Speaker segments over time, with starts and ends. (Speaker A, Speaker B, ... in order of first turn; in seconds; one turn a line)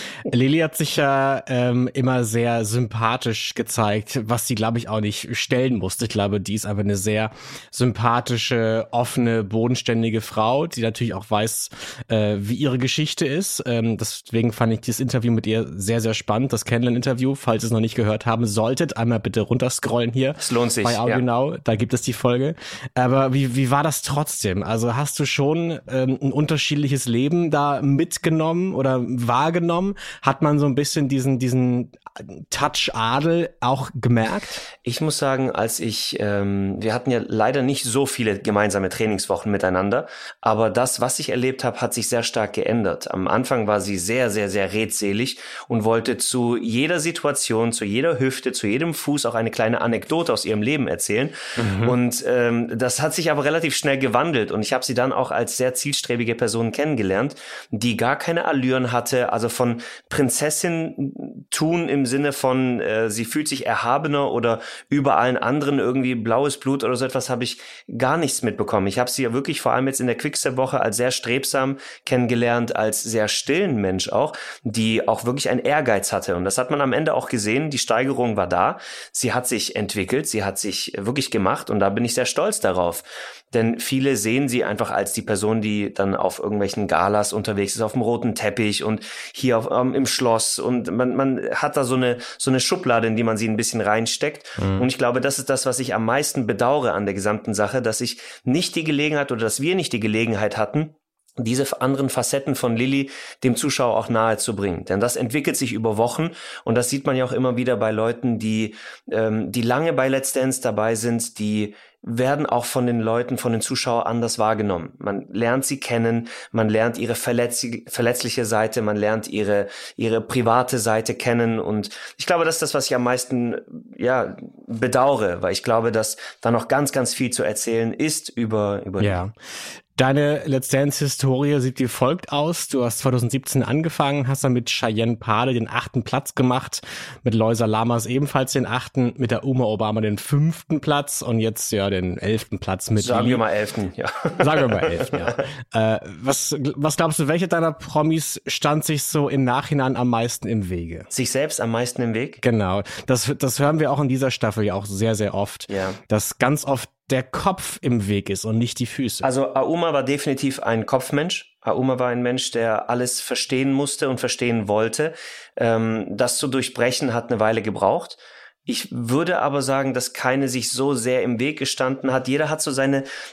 Speaker A: 0.2-34.6
Speaker B: 20.4-21.2
Speaker B: 34.9-129.2
Speaker A: 51.6-52.0
Speaker A: 94.6-94.9
Speaker A: 129.0-129.3
Speaker A: 130.0-143.4
Speaker B: 143.0-145.3
Speaker A: 144.4-151.1
Speaker B: 151.1-152.4
Speaker A: 152.4-159.3
Speaker B: 155.7-156.0
Speaker B: 159.2-173.1